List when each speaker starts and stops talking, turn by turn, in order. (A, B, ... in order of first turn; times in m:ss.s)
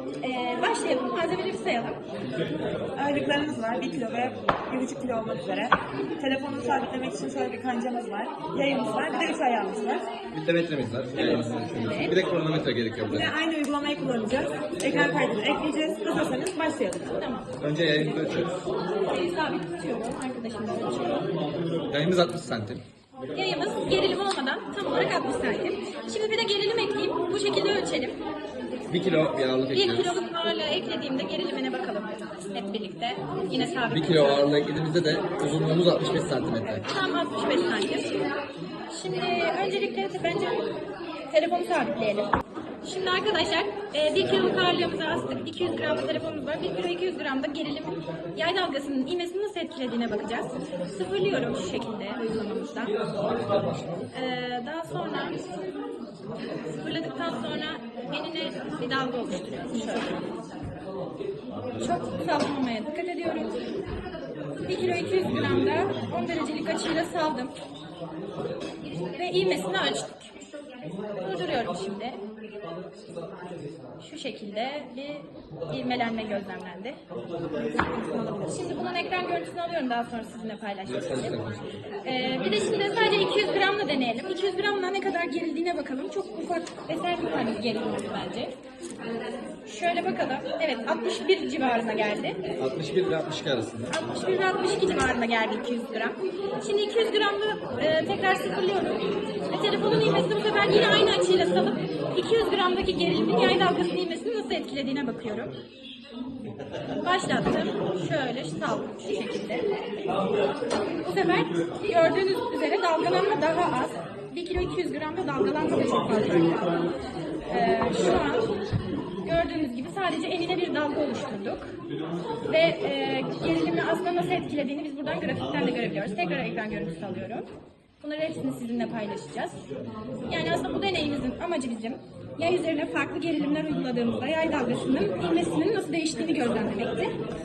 0:00.2-0:02.0 A
0:03.0-0:10.0 B
0:10.3-0:13.3 C
0:11.5-0:12.2 A
0:13.1-0:17.1 B
0:17.0-0:17.5 A
0:17.6-0:18.6 C
0:19.1-0:21.3 A
0:21.9-0:22.8 C
0:23.3-0:28.2 A
0:28.9-0:30.2 C
0:29.7-0:34.5 A
0:33.9-0:36.8 C
0:36.8-0:38.2 A
0:38.9-0:40.6 A
0:41.3-0:42.3 A
0:42.8-0:53.0 A
0:53.2-0:54.1 C
0:54.1-0:55.4 A
0:56.7-1:00.2 A
1:01.8-1:03.6 A
1:04.6-1:07.5 A
1:04.7-1:06.1 C
1:09.1-1:10.3 A
1:11.2-1:12.2 A
1:14.0-1:17.0 A
1:18.4-1:28.5 A
1:20.8-1:21.8 C
1:29.6-1:32.4 A
1:32.6-1:33.9 C
1:33.9-1:45.5 A
1:47.0-1:49.6 A
1:51.0-1:56.8 A
1:57.5-1:58.5 A
1:59.2-2:01.7 A
2:02.5-2:07.4 A
2:08.0-2:09.6 A
2:10.2-2:17.1 A